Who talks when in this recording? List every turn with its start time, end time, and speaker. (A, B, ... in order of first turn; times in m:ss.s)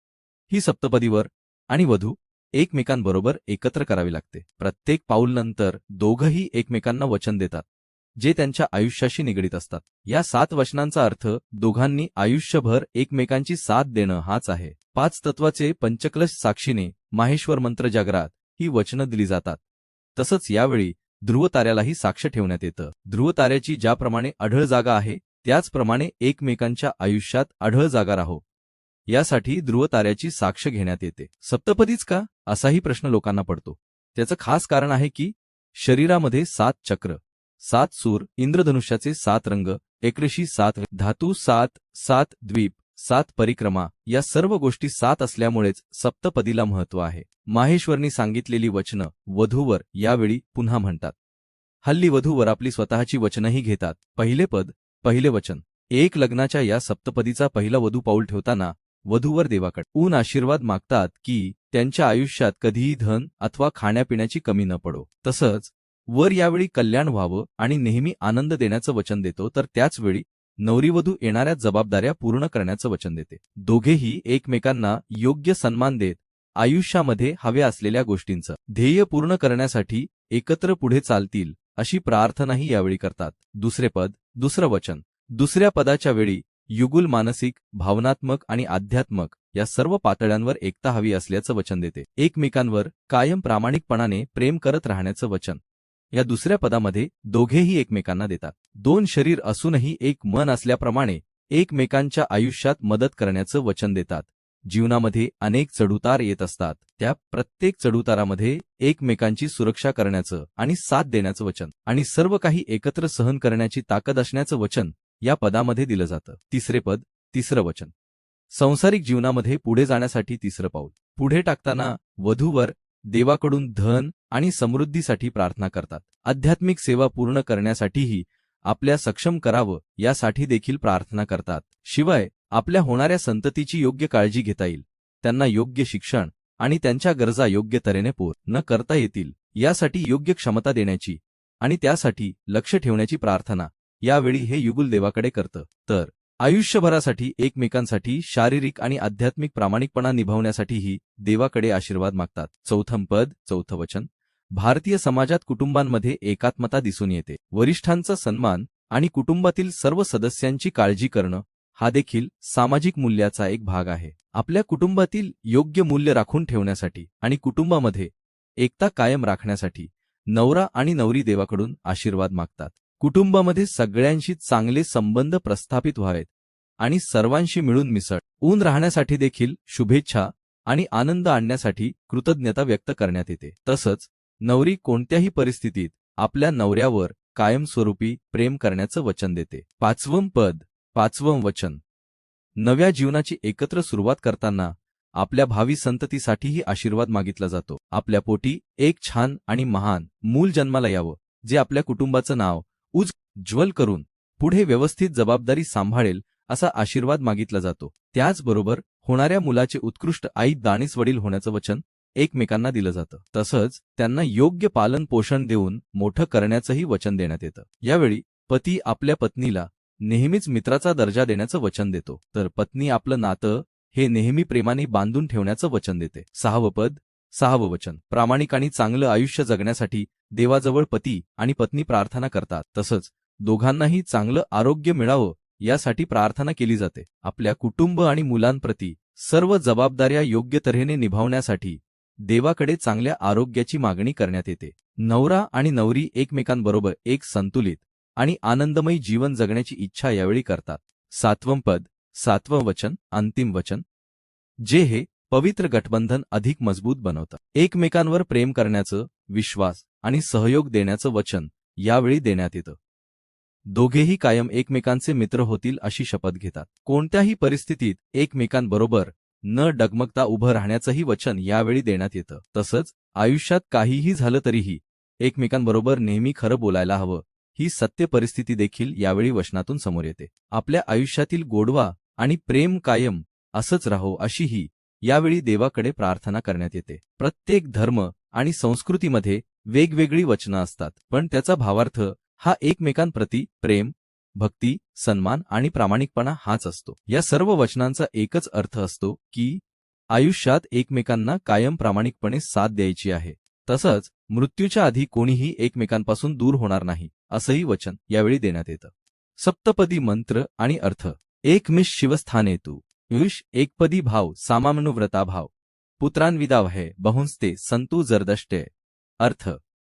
0:00.5-0:07.6 A
0:08.2-0:19.6 A
0:20.2-0:28.4 A
0:29.1-0:51.1 A
0:51.8-1:35.6 A
1:36.1-1:57.9 A
1:58.5-2:56.3 A
2:56.8-3:11.8 A
3:12.6-4:13.8 A
4:14.6-4:22.8 A
4:23.7-5:18.7 A
5:19.2-5:19.6 A